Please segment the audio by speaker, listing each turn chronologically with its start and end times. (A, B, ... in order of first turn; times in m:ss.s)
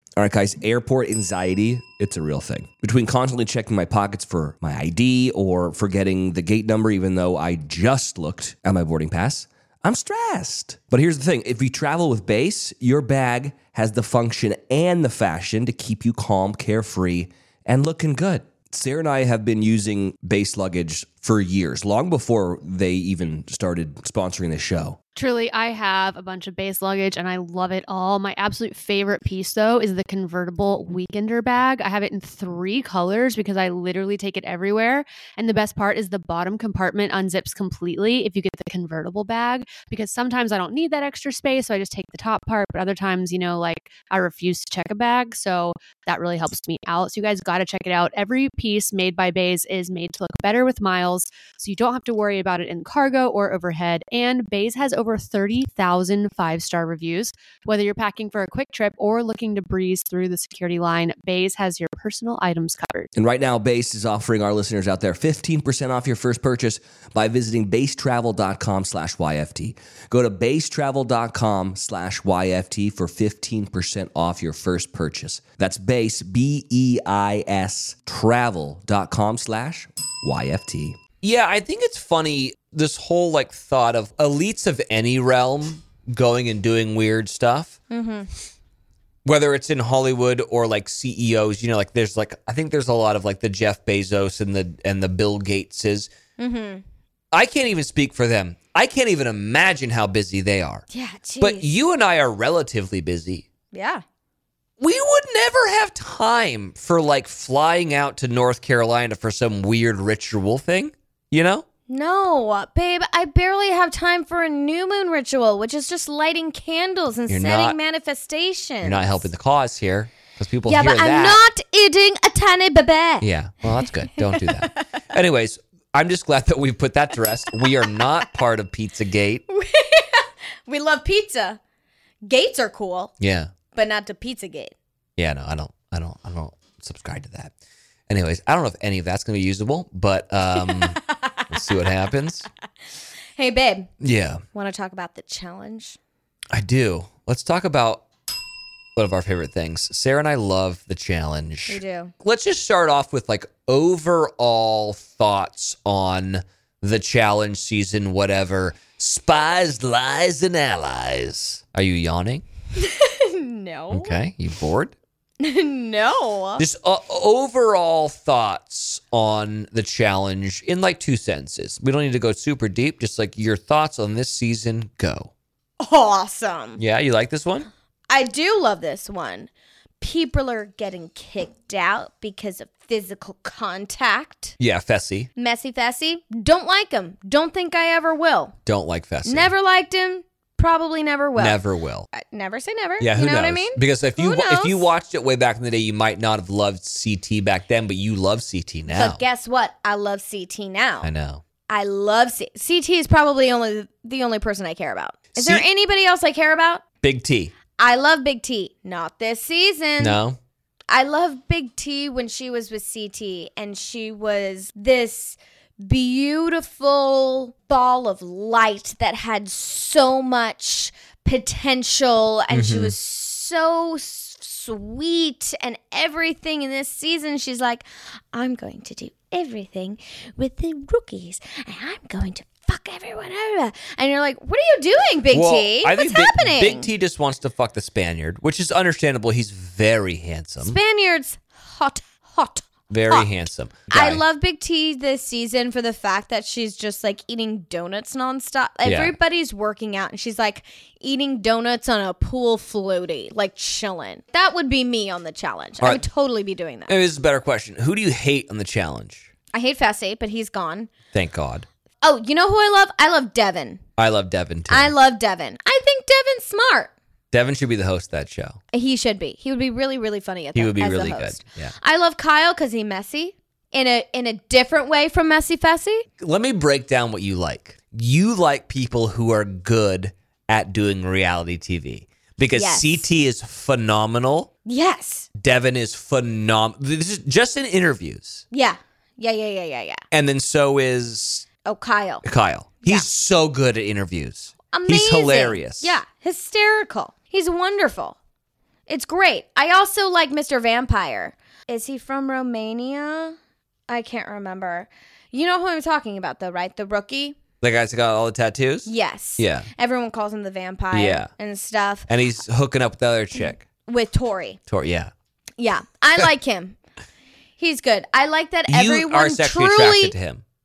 0:00.2-0:25.0 A
0:25.2-1:03.1 B
1:03.1-1:21.0 A
1:21.2-1:27.8 C
1:27.9-1:28.3 D
1:29.2-1:36.1 C
1:36.4-1:36.8 D
1:37.3-1:40.8 C
1:40.9-1:41.7 D
1:41.4-1:43.4 C
1:43.7-1:44.0 D
1:44.8-1:51.6 C
1:51.9-1:59.3 D
1:57.3-1:57.8 C
1:58.8-2:01.4 C
2:00.7-2:03.2 D
2:03.2-2:09.4 C
2:03.8-2:04.7 D
2:07.6-2:08.0 D
2:09.5-2:11.6 D
2:12.2-2:13.1 D
2:13.2-2:13.5 C
2:13.7-2:14.7 D
2:15.2-2:17.5 C
2:18.1-2:22.4 C
2:20.6-2:21.0 D
2:23.4-2:23.9 D
2:24.0-2:24.4 C
2:24.5-2:26.0 D
2:26.5-2:28.0 C
2:29.0-2:42.4 C
2:31.7-2:32.1 D
2:42.8-2:44.2 D
2:43.9-2:44.9 C
2:45.4-2:46.6 D
2:46.6-2:55.3 C
2:55.8-2:56.8 D
2:56.8-2:57.7 C
2:58.1-2:59.5 D
3:00.0-3:04.6 D
3:04.6-3:05.3 C
3:05.4-3:08.6 D
3:08.6-3:09.5 C
3:09.2-3:11.6 D
3:11.4-3:12.1 C
3:12.1-3:14.9 D
3:13.0-3:19.2 C
3:18.9-3:21.1 D
3:21.0-3:21.4 C
3:21.7-3:26.8 D
3:25.3-3:25.6 C
3:27.0-3:27.5 C
3:27.8-3:30.2 D
3:30.0-3:30.4 C
3:30.9-3:56.9 D
3:42.5-3:42.9 C
3:55.3-4:00.8 C
4:00.6-4:03.3 D
4:02.9-4:04.2 C
4:03.9-4:16.9 D
4:08.8-4:09.1 C
4:16.9-4:19.3 C
4:19.5-4:20.9 D
4:21.1-4:21.7 C
4:22.0-4:23.8 D
4:24.0-4:24.9 C
4:24.7-4:26.9 D
4:27.3-4:28.6 C
4:28.7-4:36.0 D
4:30.5-4:31.7 C
4:36.2-4:44.5 C
4:42.5-4:43.0 D
4:44.6-4:45.3 D
4:45.4-4:48.4 C
4:48.5-4:50.0 D
4:50.1-4:51.4 C
4:51.6-4:52.2 D
4:52.2-4:56.0 C
4:54.7-4:58.2 D
4:58.9-5:03.4 D
5:03.9-5:07.4 D
5:07.6-5:09.7 C
5:08.9-5:12.1 D
5:10.9-5:11.3 C
5:12.1-5:13.6 C
5:13.9-5:14.6 D
5:14.7-5:15.1 C
5:15.6-5:16.8 D
5:17.6-5:20.1 D
5:18.7-5:20.4 C